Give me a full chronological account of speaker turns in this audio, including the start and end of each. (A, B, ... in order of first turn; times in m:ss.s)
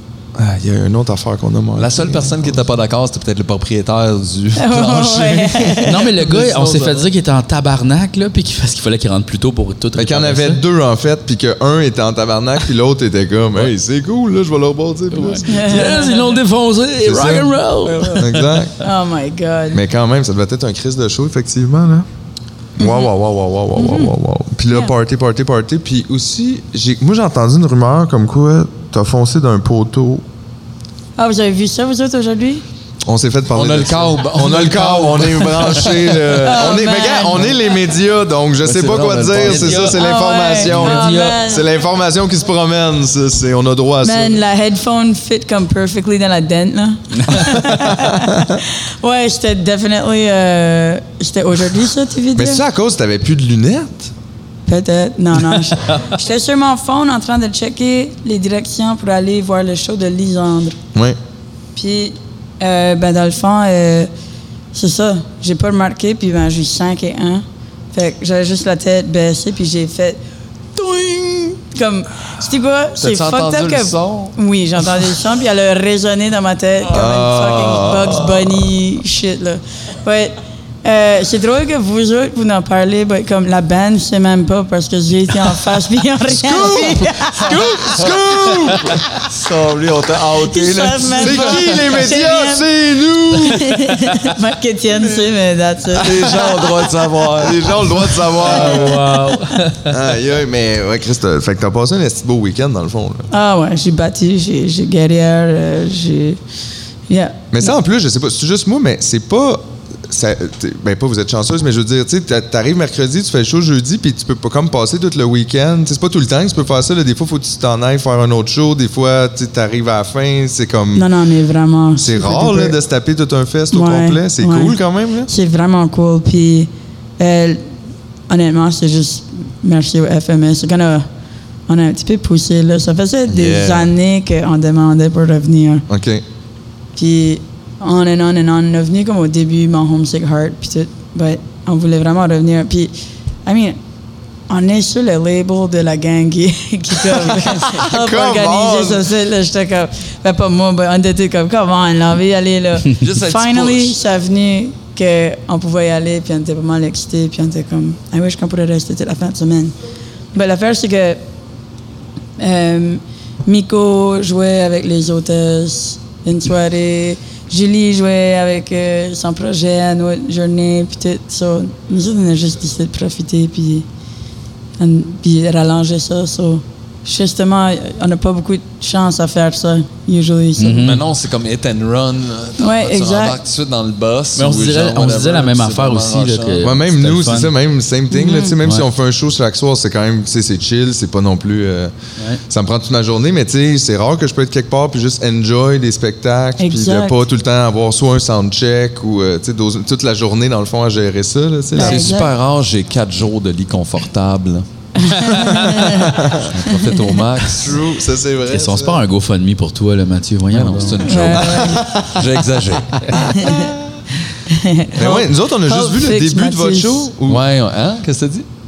0:00.4-0:02.6 A
0:01.8-0:07.1 B
0:04.6-0:06.1 C
0:05.8-0:10.6 D
0:10.0-0:15.9 A
0:15.1-0:18.6 D
0:15.5-0:16.4 C
0:17.0-0:17.6 A
0:18.2-0:18.8 A
0:18.8-0:19.8 C
0:19.7-0:22.1 A
0:22.8-0:30.2 A
0:22.8-0:23.1 C
0:23.8-0:24.1 C
0:31.2-0:32.6 C
0:33.0-0:44.4 A
0:33.5-0:36.5 B
0:36.4-0:37.6 C
0:38.6-0:39.9 B
0:39.4-0:40.0 D
0:39.9-0:41.7 C
0:40.6-0:41.4 D
0:44.0-0:52.6 C
0:47.3-0:48.6 A
0:52.4-0:54.1 A
0:54.7-1:00.8 C
1:01.8-1:04.1 C
1:04.7-1:10.2 C
1:10.7-1:27.6 C
1:13.0-1:14.3 B
1:16.9-1:18.7 A
1:26.3-1:29.1 A
1:29.1-1:31.9 B
1:30.4-1:32.6 C
1:31.1-1:34.0 A
1:33.4-1:36.9 C
1:35.9-1:38.8 B
1:37.3-1:39.0 A
1:38.4-1:39.9 D
1:39.9-1:43.3 A
1:43.3-1:46.4 C
1:47.1-1:47.7 C
1:47.5-2:01.1 A
2:01.0-2:02.8 C
2:02.0-2:05.3 A
2:03.7-2:04.8 C
2:05.3-2:07.6 C
2:08.3-2:11.1 C
2:11.7-2:15.8 C
2:13.3-2:13.8 A
2:13.4-2:13.7 B
2:15.9-2:16.2 A
2:17.0-2:22.9 C
2:23.4-2:23.8 C
2:24.5-2:39.8 C
2:27.5-2:29.1 A
2:33.0-2:34.0 B
2:40.3-2:41.2 C
2:42.4-2:53.9 C
2:54.8-3:00.9 C
3:00.6-3:01.0 D
3:00.8-3:06.7 B
3:02.6-3:03.4 C
3:04.4-3:07.5 D
3:06.6-3:11.9 A
3:08.1-3:08.6 C
3:12.5-3:22.2 A
3:16.6-3:17.2 C
3:21.8-3:22.3 C
3:21.8-3:24.6 B
3:25.0-3:26.9 C
3:25.2-3:25.6 D
3:25.5-3:26.5 A
3:26.4-3:27.8 B
3:27.6-3:29.0 A
3:28.5-3:31.1 D
3:30.5-3:33.3 B
3:31.0-3:31.9 C
3:31.4-3:32.2 A
3:33.2-3:33.7 C
3:33.5-3:33.7 A
3:34.5-3:37.1 C
3:35.0-3:37.4 A
3:37.3-3:38.5 B